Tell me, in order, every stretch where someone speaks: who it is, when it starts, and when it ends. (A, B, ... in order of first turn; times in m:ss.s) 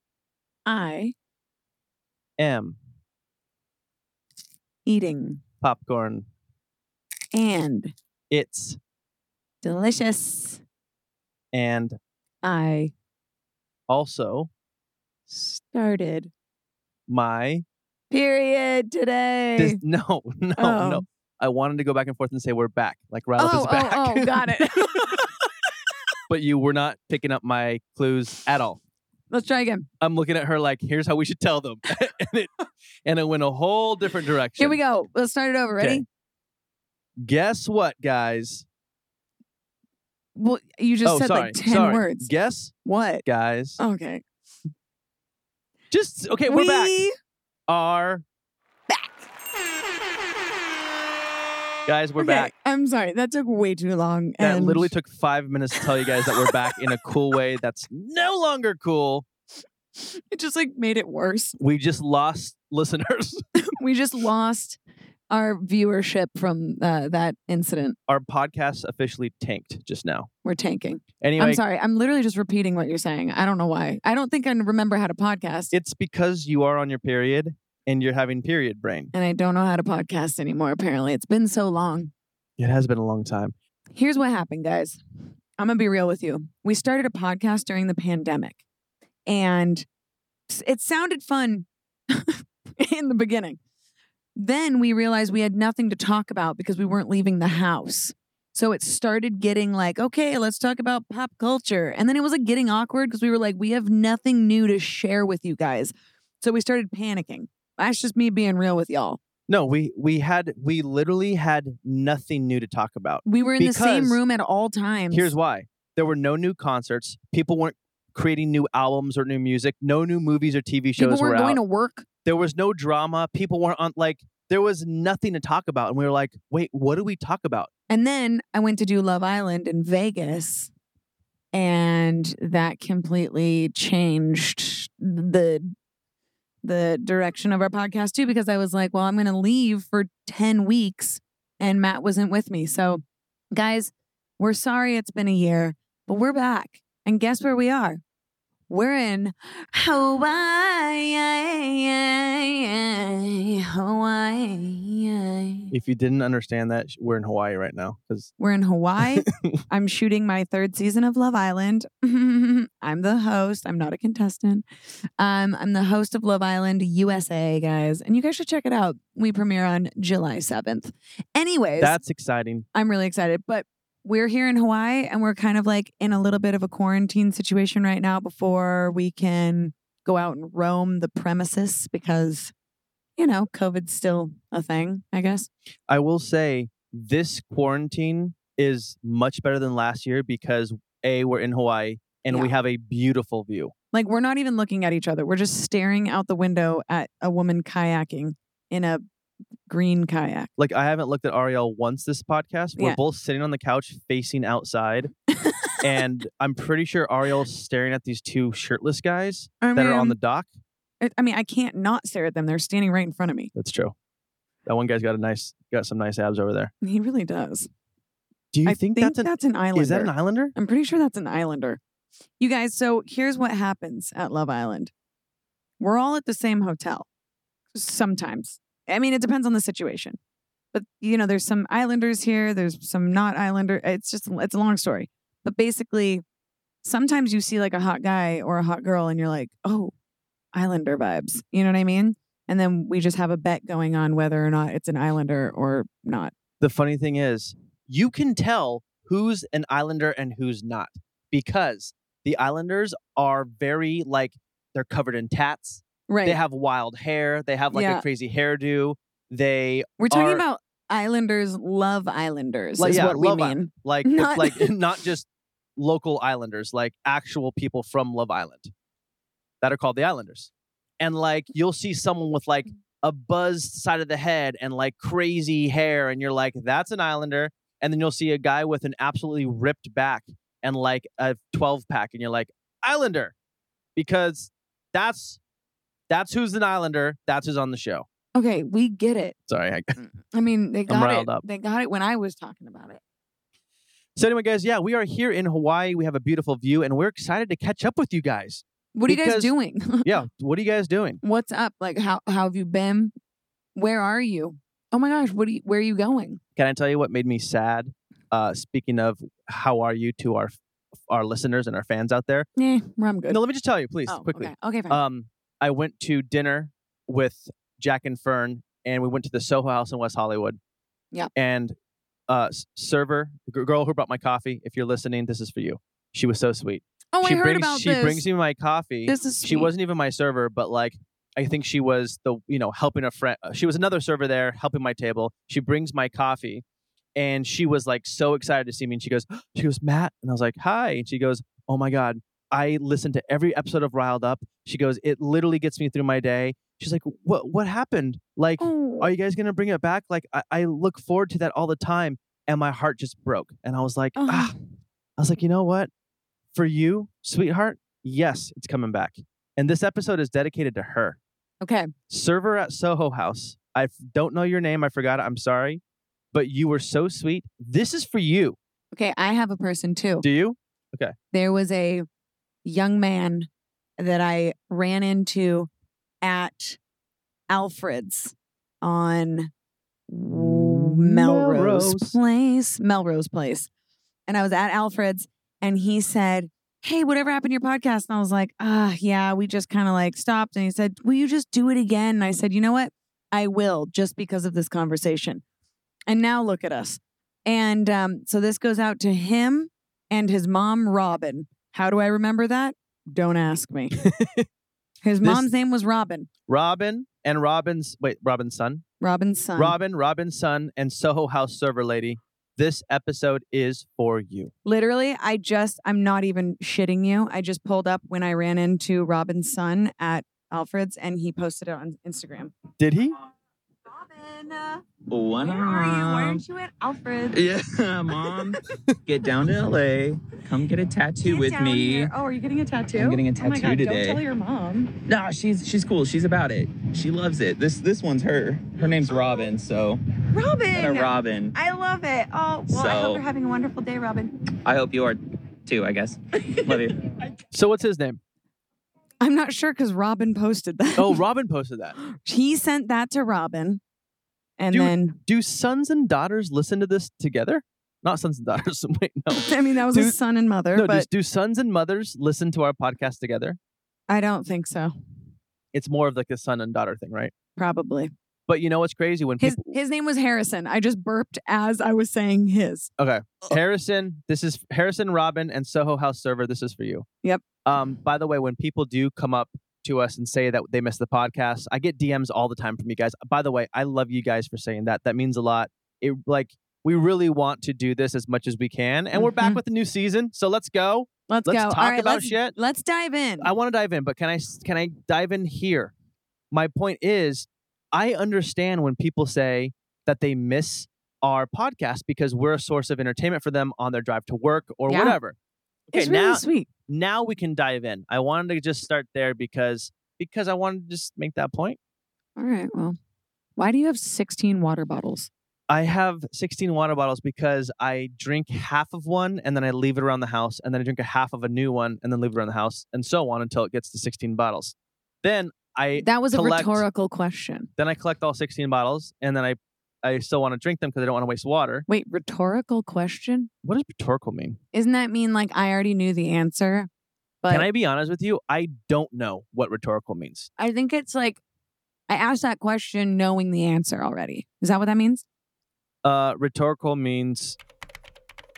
0:00.7-0:01.1 A
0:02.4-0:02.8 B
0:04.9-0:05.4 A
0:05.6-0:06.3 B
0:07.3-0:07.9 A
0:08.3-0:08.8 B
0:09.6-0:10.6 A
0:11.5-0:12.0 B
0:12.4-0:12.9 A
0:13.9-0:14.5 B
0:15.3-0:16.3 A
0:17.1-0:17.6 B
0:18.1-0:19.8 A
0:19.6-0:25.3 B
0:20.6-0:21.0 A
0:23.4-0:25.3 A
0:26.3-0:28.8 B
0:29.3-0:29.9 A
0:30.0-0:32.5 B
0:33.0-0:34.8 B
0:34.6-0:36.0 A
0:35.8-0:36.0 B
0:37.2-0:38.7 B
0:40.4-0:42.3 A
0:41.0-0:42.7 B
0:42.8-0:43.2 A
0:43.3-0:43.8 B
0:43.8-0:44.2 A
0:45.9-0:47.0 B
0:46.5-0:47.1 A
0:47.7-0:48.2 B
0:48.9-0:49.2 A
0:51.9-0:52.5 B
0:52.2-0:54.9 A
0:54.4-0:59.2 B
0:55.8-0:56.6 A
1:00.0-1:01.6 A
1:01.6-1:03.4 B
1:03.6-1:04.8 A
1:05.3-1:08.0 A
1:08.1-1:10.3 B
1:10.4-1:15.7 A
1:11.2-1:11.6 B
1:15.7-1:19.1 B
1:19.1-1:22.1 A
1:22.6-1:23.5 B
1:24.0-1:25.0 A
1:25.6-1:28.6 A
1:29.3-1:29.8 A
1:30.5-1:33.6 A
1:34.4-1:49.2 A
1:49.5-1:54.2 B
1:53.3-1:55.3 A
1:55.1-2:01.6 B
2:01.0-2:02.0 A
2:02.2-2:07.7 B
2:07.9-2:10.7 A
2:11.5-2:15.7 A
2:16.6-2:28.0 A
2:28.7-2:35.7 A
2:35.7-2:38.3 B
2:38.4-2:44.6 A
2:39.0-2:39.6 B
2:45.2-2:52.0 A
2:51.8-2:52.7 B
2:52.7-3:02.5 A
3:03.2-3:05.5 A
3:05.9-3:13.7 B
3:13.9-3:19.0 A
3:19.7-3:20.5 A
3:20.6-3:25.1 B
3:25.3-3:25.8 A
3:25.8-3:30.5 B
3:29.6-3:30.2 A
3:31.0-3:33.5 A
3:33.6-3:33.9 B
3:34.7-3:36.7 B
3:36.8-3:37.7 A
3:38.5-3:40.5 B
3:38.7-3:41.8 A
3:42.4-3:44.9 A
3:45.8-3:47.1 A
3:47.8-3:50.2 A
3:50.7-3:56.2 A
3:56.8-3:59.9 A
4:00.5-4:06.3 A
4:06.6-4:20.4 B
4:16.1-4:16.4 A
4:17.7-4:18.0 A
4:20.0-4:24.7 A
4:22.8-4:28.7 B
4:29.6-4:43.3 B
4:44.0-4:45.4 B
4:46.1-4:48.1 B
4:48.4-4:49.4 A
4:49.5-4:50.0 B
4:50.0-4:53.0 A
4:50.9-4:51.4 B
4:54.2-5:01.2 B
4:59.0-5:00.2 A
5:01.2-5:03.1 A
5:03.8-5:06.4 A
5:06.6-5:12.5 B
5:12.6-5:13.4 A
5:13.3-5:20.6 B
5:14.1-5:15.0 A
5:21.4-5:21.8 B
5:22.3-5:36.6 B
5:27.1-5:28.3 A
5:29.1-5:29.7 A
5:37.2-5:54.5 B
5:48.6-5:49.1 A
5:54.2-5:54.6 A
5:55.2-5:55.9 B
5:56.5-6:01.2 B
6:01.6-6:01.9 A
6:02.1-6:05.8 B
6:06.3-6:08.6 B
6:08.9-6:10.2 A
6:10.2-6:11.1 B
6:11.3-6:12.1 A
6:12.6-6:13.5 A
6:14.0-6:15.7 A
6:16.2-6:16.8 A
6:17.5-6:19.5 A
6:20.1-6:23.7 A
6:20.3-6:22.2 B
6:24.3-6:35.4 A
6:36.1-6:44.0 A
6:44.0-6:44.5 B
6:45.0-6:46.3 A
6:46.5-6:48.8 B
6:49.0-6:49.8 A
6:49.6-6:54.5 B
6:54.6-7:02.6 A
7:02.8-7:03.1 B
7:03.9-7:04.8 A
7:05.1-7:06.4 C
7:05.4-7:07.4 A
7:07.3-7:12.1 C
7:11.2-7:15.0 A
7:13.0-7:14.2 C
7:15.0-7:20.0 C
7:20.3-7:24.3 A
7:20.7-7:21.5 C
7:22.7-7:23.2 C
7:24.6-7:27.0 C
7:26.5-7:26.8 A
7:27.5-7:28.2 B
7:29.2-7:31.2 A
7:31.0-7:32.0 B
7:32.1-7:33.8 A
7:34.6-7:35.2 A
7:34.7-7:40.2 B
7:39.4-7:41.1 A
7:40.8-7:43.6 B
7:44.1-7:44.9 A
7:45.7-7:47.3 B
7:47.6-7:48.1 A
7:48.5-7:49.8 B
7:49.4-7:52.9 A
7:53.0-7:57.1 B
7:57.7-8:12.6 B
8:09.1-8:09.6 A
8:11.3-8:13.5 A
8:13.4-8:15.9 B
8:16.5-8:25.4 B
8:24.9-8:25.2 A
8:25.9-8:31.8 B
8:25.9-8:26.7 A
8:32.4-8:33.0 A
8:33.6-8:35.3 A
8:35.7-8:46.8 B
8:46.0-8:47.7 A
8:47.8-8:51.8 B
8:51.9-8:53.5 A
8:53.6-8:54.6 B
8:54.7-8:56.9 A
8:57.4-8:57.7 A
8:57.5-9:00.5 B
9:00.6-9:01.4 A
9:02.1-9:05.2 A
9:06.0-9:07.6 B